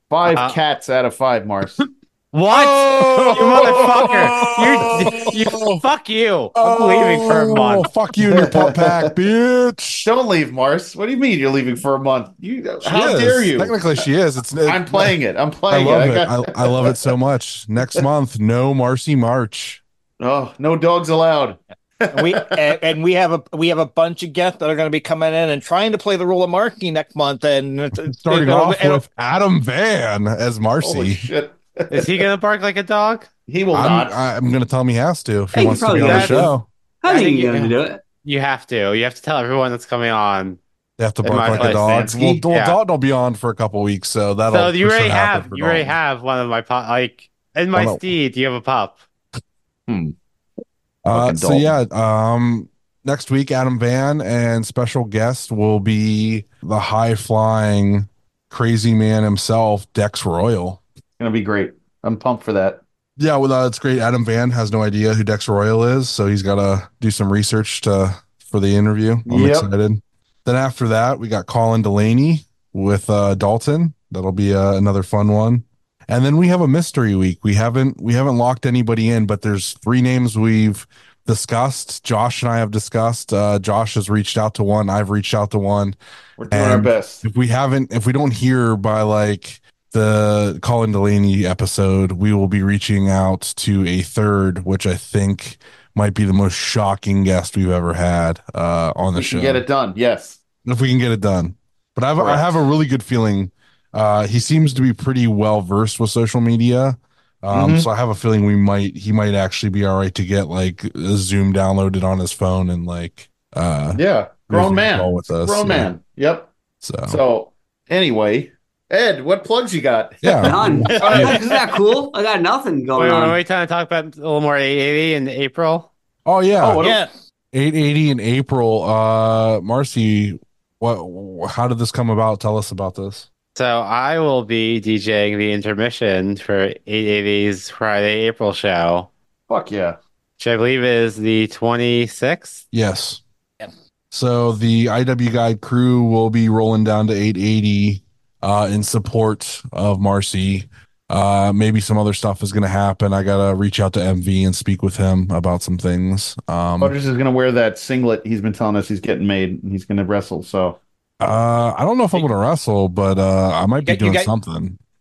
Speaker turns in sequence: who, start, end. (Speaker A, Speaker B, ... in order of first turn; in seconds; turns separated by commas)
Speaker A: 0.1-1.8, Speaker B: 0.3-0.6, Speaker B: 1.8-7.9, Speaker C: 2.5-5.8, Speaker A: 3.2-5.5, Speaker C: 6.5-10.1, Speaker A: 8.3-9.1, Speaker A: 10.0-13.8, Speaker C: 12.8-15.2, Speaker A: 14.7-17.0, Speaker C: 15.7-19.8, Speaker A: 20.2-22.5, Speaker D: 22.1-29.0, Speaker C: 28.1-31.3, Speaker A: 30.8-32.3, Speaker B: 31.9-33.3, Speaker A: 33.5-34.2, Speaker C: 33.7-36.7, Speaker E: 35.5-36.5, Speaker B: 35.9-36.4, Speaker E: 37.0-38.0, Speaker D: 37.1-37.4, Speaker B: 37.1-40.6, Speaker C: 41.0-46.0, Speaker B: 41.2-42.8, Speaker A: 41.3-42.4, Speaker B: 44.5-49.0, Speaker C: 47.7-48.1, Speaker A: 49.9-50.1, Speaker C: 51.0-60.8, Speaker A: 51.1-51.8, Speaker A: 61.2-62.8, Speaker C: 63.2-86.0, Speaker A: 69.3-69.7, Speaker A: 86.4-87.2, Speaker C: 86.5-99.6, Speaker A: 99.2-100.4, Speaker C: 100.6-115.9, Speaker A: 102.2-102.5, Speaker A: 107.5-107.9, Speaker A: 113.9-116.5, Speaker C: 116.8-117.2, Speaker A: 117.1-121.5, Speaker C: 120.2-121.4, Speaker E: 120.4-123.4, Speaker D: 121.0-121.4, Speaker B: 123.0-125.9, Speaker C: 126.2-126.9, Speaker A: 126.6-127.0, Speaker D: 126.8-127.1, Speaker C: 127.5-133.3, Speaker B: 133.6-139.1, Speaker A: 139.5-140.0, Speaker B: 140.4-142.7, Speaker C: 142.7-143.2, Speaker C: 144.1-156.9, Speaker A: 156.8-160.8, Speaker C: 161.2-164.8, Speaker D: 163.8-164.3